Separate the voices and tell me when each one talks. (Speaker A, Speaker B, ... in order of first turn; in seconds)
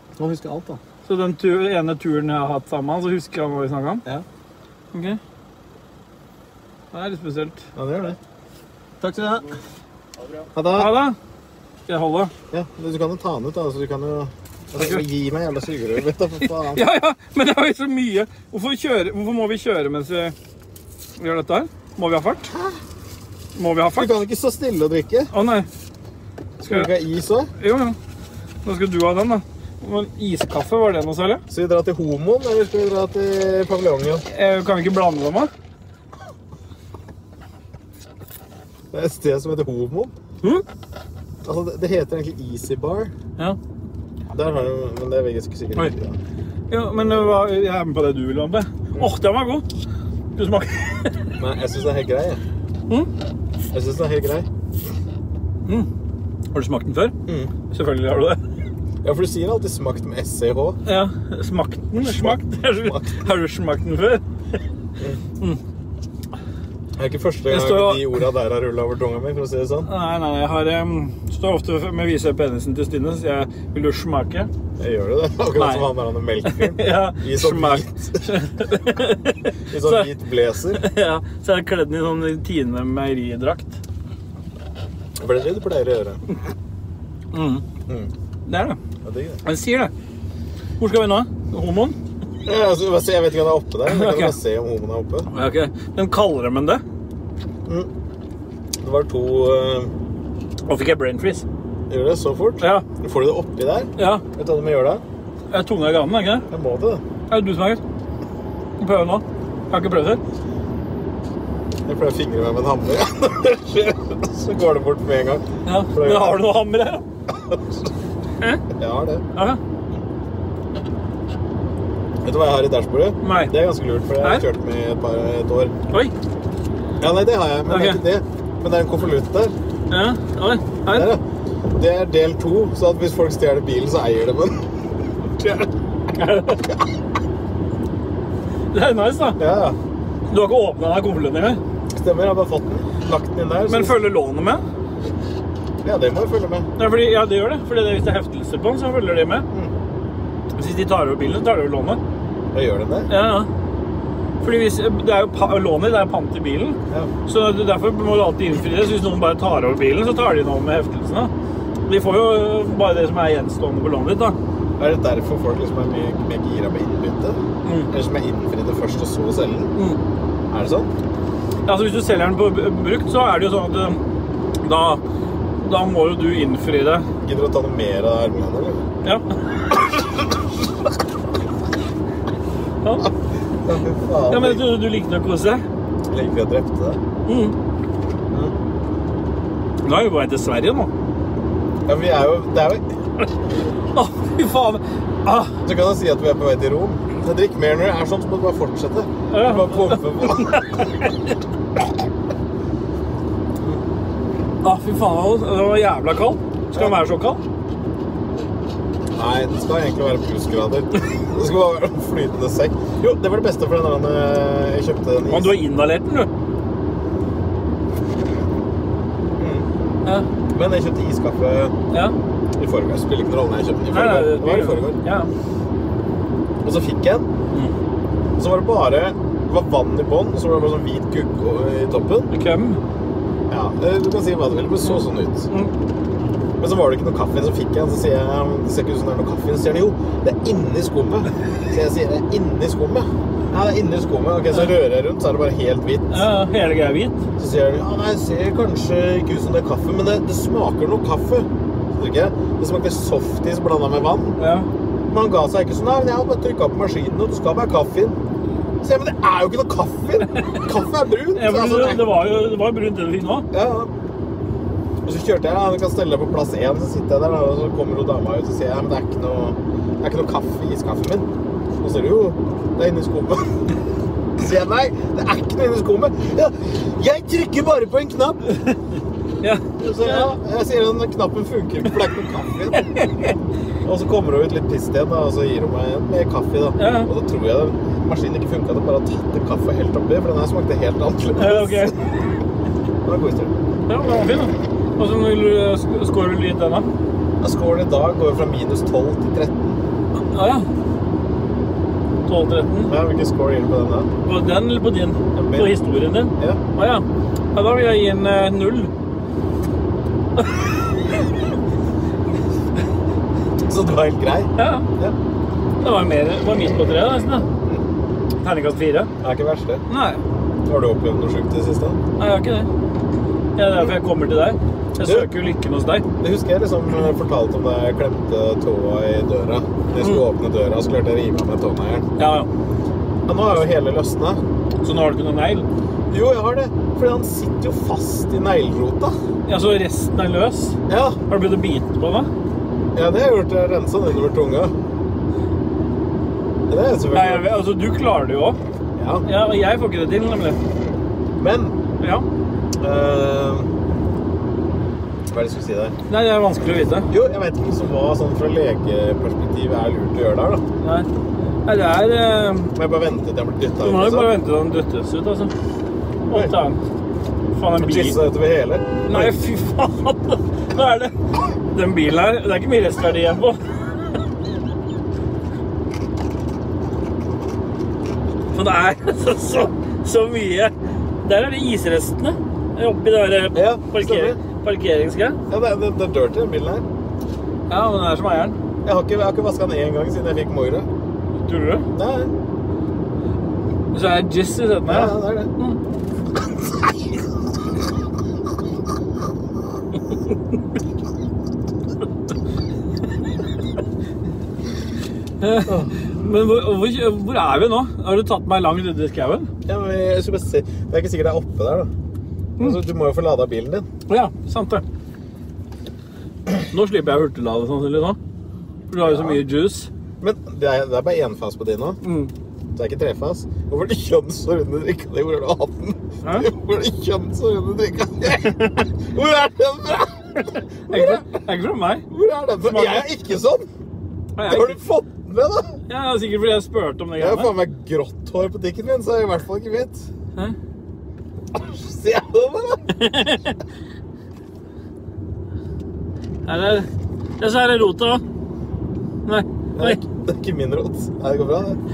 Speaker A: 0.2-0.8, 7.8-8.2, 9.0-9.5, 10.5-11.0, 12.5-16.8, 22.5-22.8, 23.9-25.3, 26.6-27.5, 31.5-34.2, 38.9-40.1, 41.4-43.1, 44.3-46.2, 51.4-52.4, 53.7-54.5, 57.2-57.5, 59.0-60.8, 61.9-63.1, 67.0-69.9, 74.8-78.3, 79.7-80.8, 85.2-86.2, 89.0-89.4, 92.4-95.3, 98.8-99.9, 101.9-105.0, 106.5-107.0, 111.8-116.5, 117.3-117.9, 118.7-119.2, 122.2-125.7, 127.0-129.5, 130.9-131.2, 131.7-135.7, 139.4-139.8, 141.9-143.9, 145.8-146.7, 152.5-153.1, 164.8-167.4, 167.9-169.7, 170.5-170.9, 177.2-178.8, 183.6-184.7, 186.1-187.0, 191.9-192.8, 195.6-200.6, 209.1-215.6, 219.4-219.7, 220.5-221.8, 222.6-225.0, 226.6-227.3, 228.4-232.3, 233.5-235.5, 236.6-246.2, 247.4-254.4, 255.1-258.2, 258.8-262.2, 263.5-263.9, 265.0-271.3, 271.8-273.7, 274.4-278.5, 279.8-282.9, 283.8-292.0, 293.0-293.6, 297.4-299.8, 302.8-304.1, 305.3-305.8, 313.6-315.1, 319.2-319.8, 320.6-322.0, 325.0-325.3, 326.2-332.1, 333.2-334.4, 336.1-339.1, 340.9-341.2, 342.9-344.7, 346.7-347.5, 348.9-349.3, 351.4-351.7, 352.8-353.7, 355.3-355.9, 357.1-360.6, 362.7-364.3, 367.8-369.4, 383.5-384.4, 385.5-386.9, 388.8-390.9, 391.9-392.3, 394.8-395.5, 405.6-405.9, 409.6-411.9, 412.6-413.9, 419.0-419.4, 420.2-422.0, 422.7-431.2, 432.1-433.7, 434.4-435.8, 437.2-440.1, 441.5-442.9, 449.8-451.8
Speaker B: 1.0-4.0, 4.9-5.2, 6.9-7.6, 10.7-11.2, 11.9-12.3, 14.8-15.0, 16.7-20.3, 21.2-22.5, 23.5-24.1, 25.3-25.7, 27.6-28.0, 28.6-31.4, 34.3-35.5, 46.7-49.6, 50.4-51.3, 56.5-57.1, 57.7-58.4, 60.9-64.2, 67.5-68.2, 69.8-74.5, 75.5-75.9, 76.4-80.1, 80.7-83.8, 87.3-87.6, 88.5-88.8, 89.4-89.9, 90.8-92.0, 93.8-94.3, 95.3-96.8, 100.7-101.4, 102.6-102.8, 104.0-104.2, 105.5-106.5, 107.3-107.8, 108.8-110.2, 115.6-117.0, 119.3-119.6, 123.2-123.5, 127.7-128.0, 129.9-131.1, 136.1-136.7, 138.7-139.4, 140.3-141.6, 143.7-144.6, 146.8-149.4, 150.6-152.0, 153.1-153.5, 154.4-161.3, 161.9-164.4, 167.6-167.9, 169.8-170.0, 171.7-174.0, 174.6-175.0, 175.6-177.1, 182.8-183.1, 184.3-185.6, 187.2-187.5, 189.8-190.9, 193.9-195.6, 199.3-201.3, 204.6-207.4, 215.3-216.3, 223.9-225.3, 232.3-232.8, 246.1-247.2, 254.4-254.7, 260.3-260.6, 261.3-263.5, 279.4-280.3, 282.7-283.3, 286.8-287.1, 291.4-292.0, 293.9-296.9, 300.1-300.7, 302.2-302.9, 304.2-308.9, 310.4-311.2, 314.6-314.9, 315.8-317.5, 318.4-319.1, 319.9-320.2, 322.2-322.7, 323.6-326.1, 332.2-332.5, 334.8-335.7, 339.5-342.3, 347.1-348.6, 349.2-350.6, 352.0-352.2, 356.1-357.1, 360.8-361.1, 361.6-362.8, 363.8-365.5, 366.3-366.8, 367.5-368.2, 369.1-371.1, 371.7-373.8, 378.5-385.4, 387.7-388.6, 391.4-391.9, 393.9-395.8, 405.4-409.5, 414.1-414.8, 416.7-418.2, 418.9-419.9, 422.0-422.3, 426.2-426.5, 428.4-428.9, 430.9-432.1, 432.6-433.0, 434.4-434.8, 435.9-437.5, 442.9-443.6, 446.4-446.9, 447.4-448.2, 449.2-450.0